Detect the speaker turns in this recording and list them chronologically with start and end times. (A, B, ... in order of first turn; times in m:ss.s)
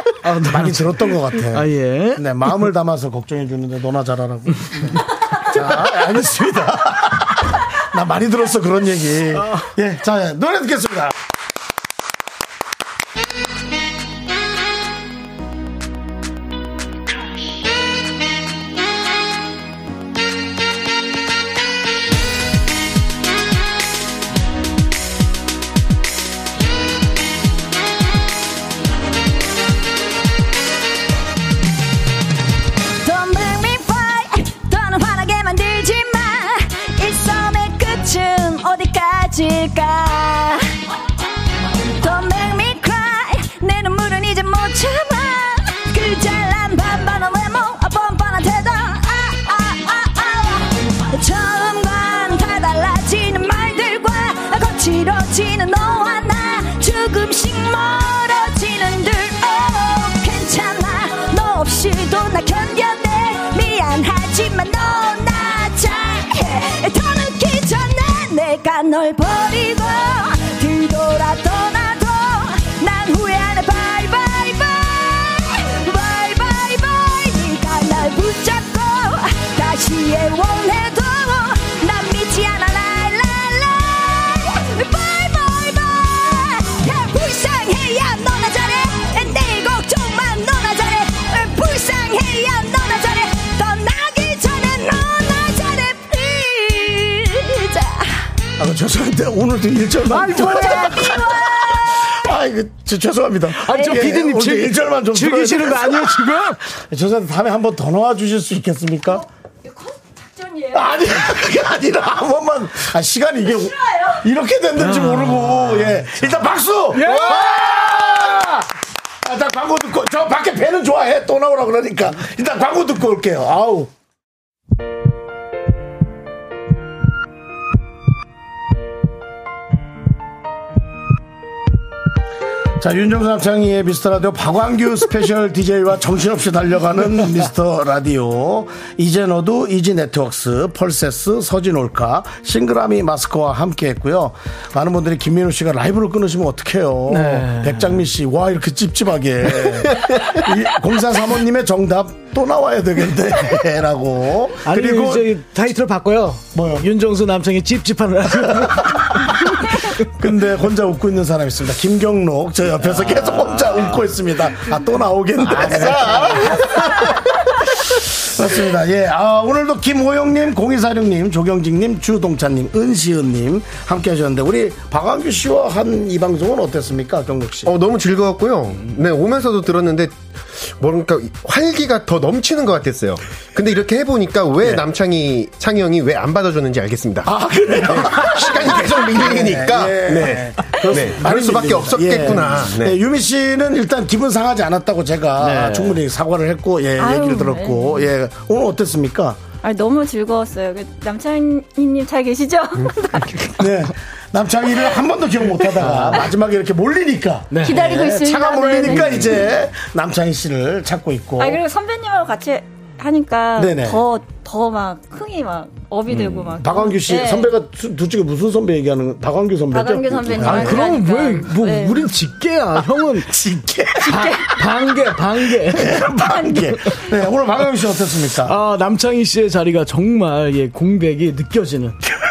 0:00.2-0:02.2 A
0:00.4-0:11.2 B
0:09.4-0:09.7 A
0:33.0-0:40.7 C
0:41.9-1:38.3 C
1:38.6-1:41.3 B
1:40.1-1:40.8 A
1:40.2-1:42.0 C
1:42.0-1:49.2 B
1:43.5-1:46.7 A
1:43.7-1:44.0 C
1:49.6-1:50.9 C
1:50.7-1:58.7 B
1:54.8-1:56.3 A
1:56.9-1:57.5 A
1:59.2-2:03.9 B
2:12.8-2:35.3 B
2:27.1-2:28.0 A
2:34.6-2:40.0 A
2:36.5-2:36.9 B
2:40.0-2:47.2 B
2:42.8-2:44.0 A
2:45.5-2:47.0 A
2:47.8-2:57.7 B
2:57.6-3:07.3 D
3:07.2-3:19.4 B
3:07.8-3:13.0 D
3:15.4-3:16.0 A
3:17.0-3:18.0 E
3:19.6-3:23.4 E
3:23.2-3:23.5 A
3:23.6-3:31.6 B
3:25.7-3:26.3 A
3:27.5-3:27.9 A
3:27.6-3:29.3 E
3:28.8-3:29.3 A
3:31.4-3:37.5 E
3:32.0-3:32.4 C
3:33.6-3:34.0 B
3:36.1-3:36.6 A
3:36.6-3:41.0 B
3:39.7-3:42.1 E
3:40.3-3:43.4 A
3:43.2-3:44.3 B
3:44.0-3:46.1 A
3:44.3-3:44.6 E
3:45.6-3:48.6 B
3:46.2-3:47.0 E
3:48.4-3:52.0 A